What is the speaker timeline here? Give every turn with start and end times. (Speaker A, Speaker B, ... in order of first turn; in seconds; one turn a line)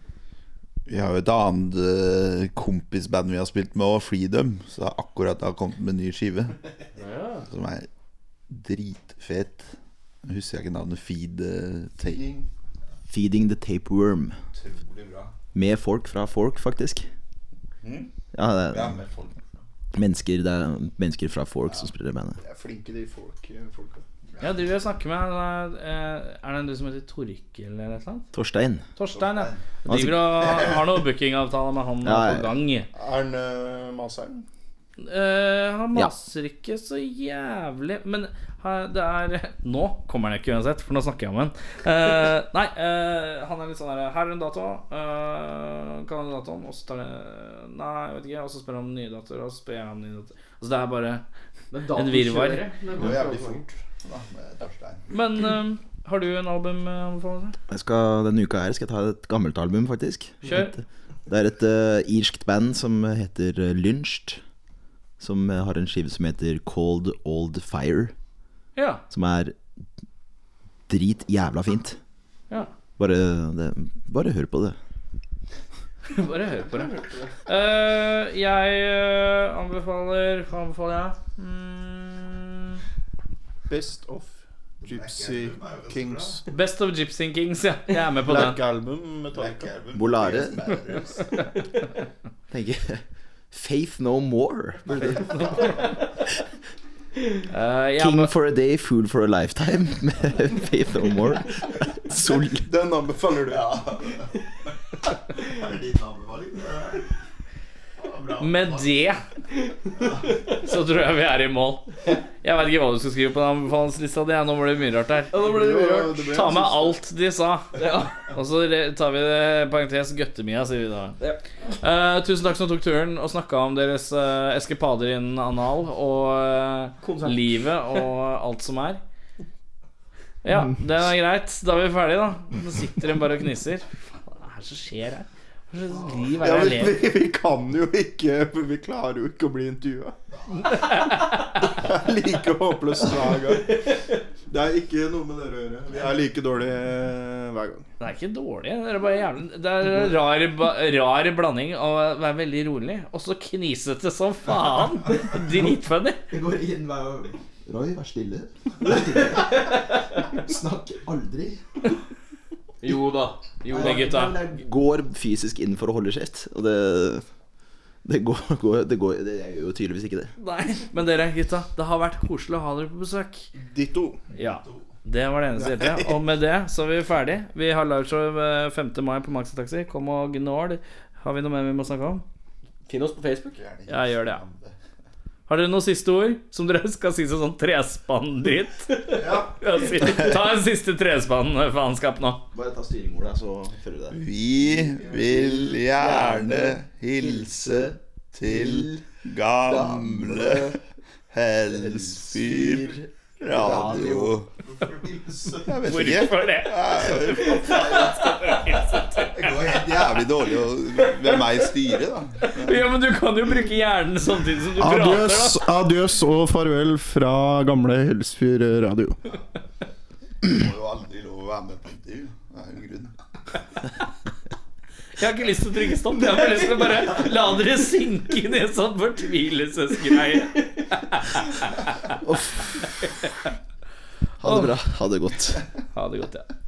Speaker A: 0.9-6.6
Speaker B: 7.0-7.5
Speaker A: 7.4-7.9
Speaker A: 8.5-9.7
Speaker A: 10.2-12.4
Speaker C: 12.1-12.5
Speaker D: 13.1-14.4
Speaker A: 14.5-15.3
Speaker D: 15.5-17.1
Speaker A: 17.8-19.7
Speaker D: 18.3-19.0
Speaker D: 19.9-22.4
Speaker C: 22.4-24.0
Speaker E: 24.4-28.3
Speaker D: 28.3-28.9
Speaker E: 29.0-32.9
Speaker A: 29.1-29.6
Speaker D: 29.9-30.7
Speaker D: 32.0-32.5
Speaker C: 32.9-34.5
Speaker E: 35.0-51.2
Speaker B: 51.7-53.7
Speaker E: 51.9-52.7
Speaker A: 53.0-55.1
Speaker E: 55.1-57.6
Speaker D: 57.7-64.4
Speaker E: 60.4-60.7
Speaker D: 65.2-68.1
Speaker E: 68.8-69.0
Speaker D: 69.1-69.5
Speaker D: 70.9-72.0
Speaker D: 73.0-74.8
Speaker E: 76.1-77.0
Speaker B: 76.5-77.3
Speaker E: 77.5-82.8
Speaker C: 83.7-86.4
Speaker A: 84.8-86.4
Speaker E: 86.5-88.6
Speaker C: 88.2-89.7
Speaker A: 89.3-91.4
Speaker D: 89.9-90.6
Speaker D: 92.5-95.6
Speaker C: 95.0-95.6
Speaker A: 95.3-95.8
Speaker E: 97.5-98.3
Speaker D: 98.0-102.7
Speaker C: 102.5-103.9
Speaker A: 103.4-104.3
Speaker A: 105.3-107.1
Speaker A: 108.0-109.0
Speaker E: 108.4-109.2
Speaker E: 110.5-121.2
Speaker C: 115.3-117.0
Speaker B: 115.4-116.2
Speaker B: 117.8-118.2
Speaker E: 121.7-129.0
Speaker B: 127.0-127.4
Speaker E: 130.4-137.0
Speaker C: 136.4-140.2
Speaker E: 140.7-141.7
Speaker C: 141.6-143.9
Speaker C: 144.5-147.9
Speaker E: 148.0-156.3
Speaker D: 156.3-161.6
Speaker B: 162.8-164.1
Speaker D: 163.7-167.2
Speaker E: 163.7-164.4
Speaker D: 168.1-170.3
Speaker E: 170.4-173.5
Speaker C: 173.6-174.2
Speaker E: 174.3-182.2
Speaker C: 175.6-176.2
Speaker B: 182.9-183.6
Speaker A: 183.5-184.8
Speaker E: 183.9-184.4
Speaker E: 185.5-192.4
Speaker D: 192.5-197.9
Speaker A: 194.1-200.8
Speaker D: 198.4-199.0
Speaker D: 199.6-200.8
Speaker A: 201.3-212.8
Speaker D: 201.7-204.4
Speaker E: 205.7-209.8
Speaker E: 212.5-215.7
Speaker C: 214.8-219.3
Speaker A: 220.4-223.2
Speaker E: 225.2-232.2
Speaker D: 232.1-232.8
Speaker D: 234.4-235.7
Speaker E: 234.4-234.8
Speaker E: 235.9-236.5